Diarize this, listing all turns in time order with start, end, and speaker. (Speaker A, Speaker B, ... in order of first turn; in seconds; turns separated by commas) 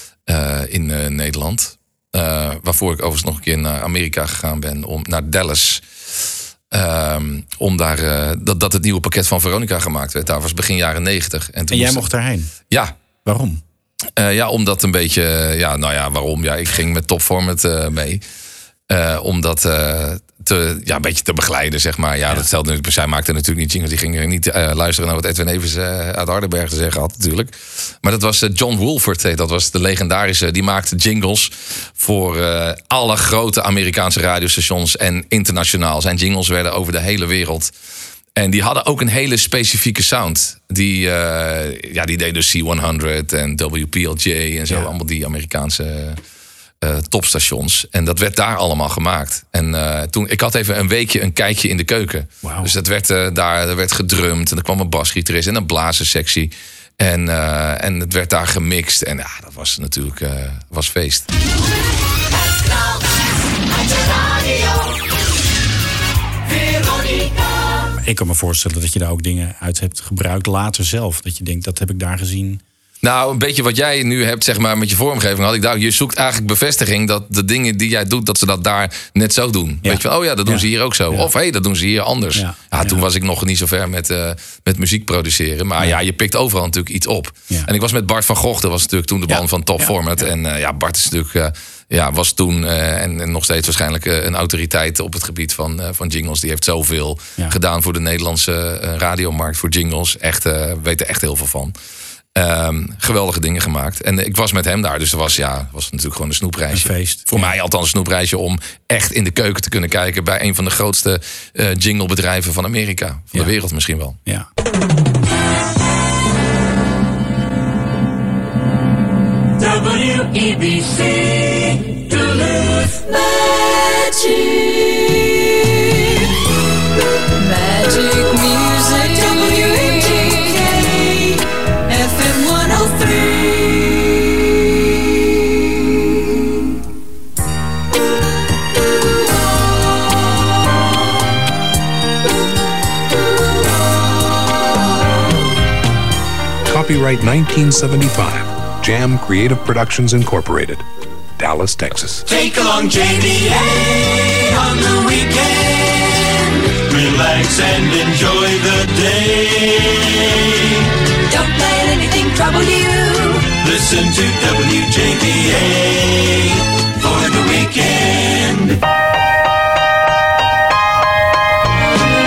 Speaker A: 0.3-5.8, Speaker A: 6.7-12.1, Speaker B: 11.7-12.5, Speaker B: 13.2-13.6, Speaker A: 14.2-18.2, Speaker A: 18.9-37.7, Speaker A: 38.4-46.2, Speaker A: 46.8-61.3, Speaker B: 52.4-52.7, Speaker C: 64.2-64.6, Speaker C: 66.5-67.4, Speaker B: 68.0-72.6, Speaker A: 73.0-101.7, Speaker B: 79.8-81.3, Speaker B: 82.3-83.0, Speaker B: 89.3-90.3, Speaker A: 102.3-114.2, Speaker B: 106.7-107.5, Speaker C: 119.6-125.8, Speaker C: 127.3-134.1, Speaker D: 146.7-150.8, Speaker D: 151.4-152.2, Speaker E: 152.3-160.8, Speaker C: 161.2-163.5, Speaker E: 163.6-168.8